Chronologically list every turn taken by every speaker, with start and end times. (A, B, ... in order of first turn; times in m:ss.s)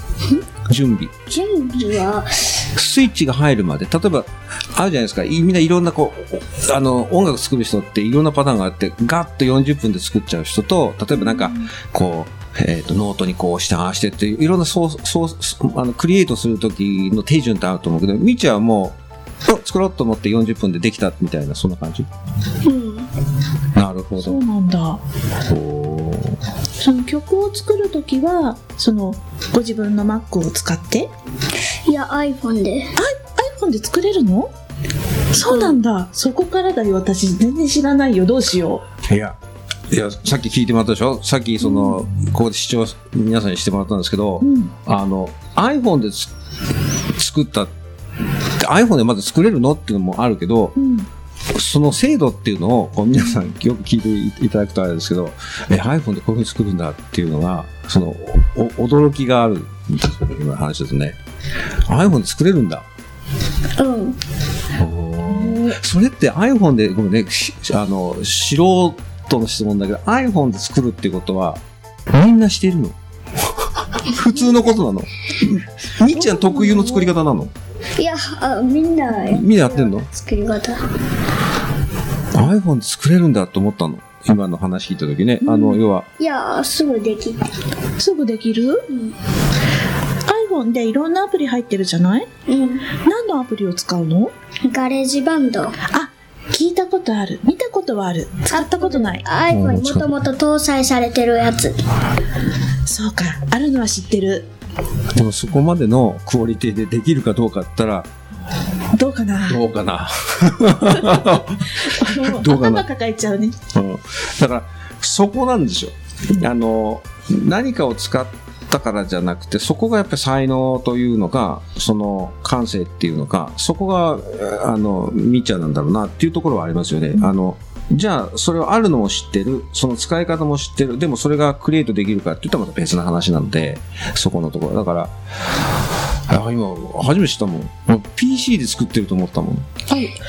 0:00.7-0:01.2 A
0:01.3-0:02.6 B
0:02.7-0:22.1 A
0:22.6-0:23.1 B
0:23.7-0:24.4 A
0:24.2-0:25.0 C
0:25.4-0:26.4 A
0:26.8-0:31.1 C
0:31.9-0:33.0 B
0:33.0-0:34.5 C
0:35.3-0:38.8 C
0:35.4-0:35.8 B
0:39.1-0:39.4 A
0:39.9-0:47.7 A
0:44.4-0:44.7 C
0:48.4-0:50.8 A
0:50.8-0:51.1 C
0:51.5-1:01.2 A
1:01.9-1:02.9 A
1:03.8-1:04.2 B
1:04.7-1:17.5 A
1:05.3-1:05.8 B
1:16.2-1:16.8 C
1:16.6-1:17.1 B
1:18.0-1:20.8 B
1:19.2-1:20.1 A
1:22.3-1:26.1 A
1:25.4-1:25.8 C
1:26.2-1:27.6 B
1:28.0-1:28.8 C
1:28.9-1:29.2 B
1:30.2-1:32.3 C
1:32.5-1:32.9 B
1:33.0-1:34.3 C
1:34.6-1:35.8 B
1:35.9-1:39.3 C
1:38.5-1:41.8 B
1:39.5-1:40.2 A
1:42.8-1:44.5 C
1:45.1-1:48.1 A
1:48.9-1:49.6 C
1:49.5-1:52.9 A
1:51.8-1:53.6 C
1:53.7-2:19.7 A